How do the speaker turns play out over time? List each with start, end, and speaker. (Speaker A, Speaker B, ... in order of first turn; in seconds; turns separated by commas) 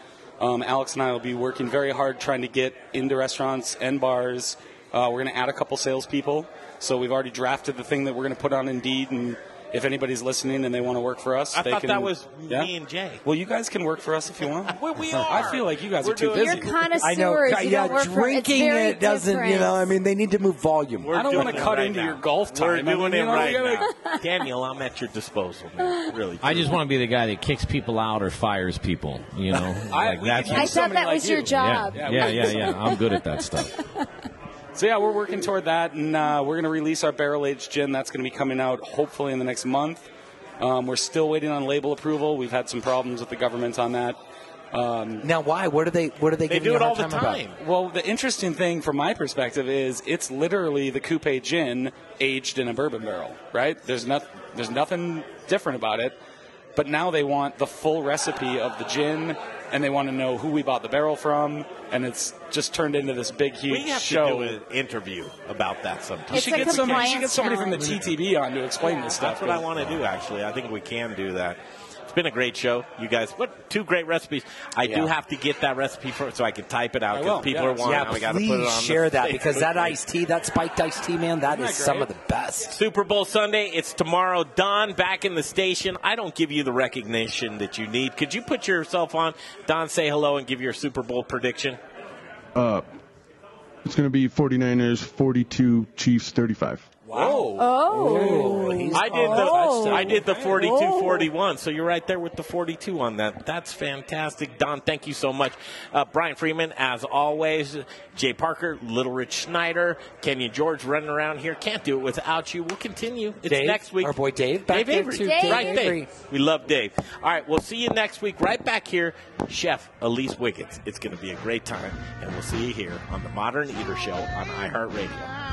Speaker A: 0.4-12.7, Speaker B: 11.6-13.2, Speaker A: 13.2-16.8, Speaker B: 14.7-16.8, Speaker C: 16.4-19.9, Speaker D: 17.0-21.7, Speaker B: 21.0-26.8, Speaker A: 21.1-23.9, Speaker E: 26.4-30.8, Speaker A: 29.9-32.9, Speaker B: 30.0-30.8, Speaker C: 30.6-33.1, Speaker E: 31.5-33.7, Speaker A: 34.8-40.1, Speaker A: 40.6-44.2, Speaker A: 44.7-45.3, Speaker D: 45.2-47.5, Speaker B: 46.5-47.6, Speaker A: 47.6-56.2, Speaker A: 56.8-64.6, Speaker B: 63.7-68.2, Speaker A: 66.3-69.9, Speaker C: 66.3-67.9, Speaker B: 69.0-80.0, Speaker D: 74.8-75.1, Speaker A: 77.1-78.1, Speaker D: 77.8-82.8, Speaker A: 81.5-82.1, Speaker B: 82.7-91.8, Speaker F: 92.5-92.9, Speaker F: 93.8-96.9, Speaker A: 97.1-98.7, Speaker B: 97.1-97.5, Speaker C: 97.6-98.6, Speaker D: 97.9-100.3, Speaker B: 98.9-125.3, Speaker C: 99.6-100.0, Speaker A: 100.0-100.6, Speaker C: 100.7-101.0, Speaker D: 113.5-116.1, Speaker C: 115.2-115.8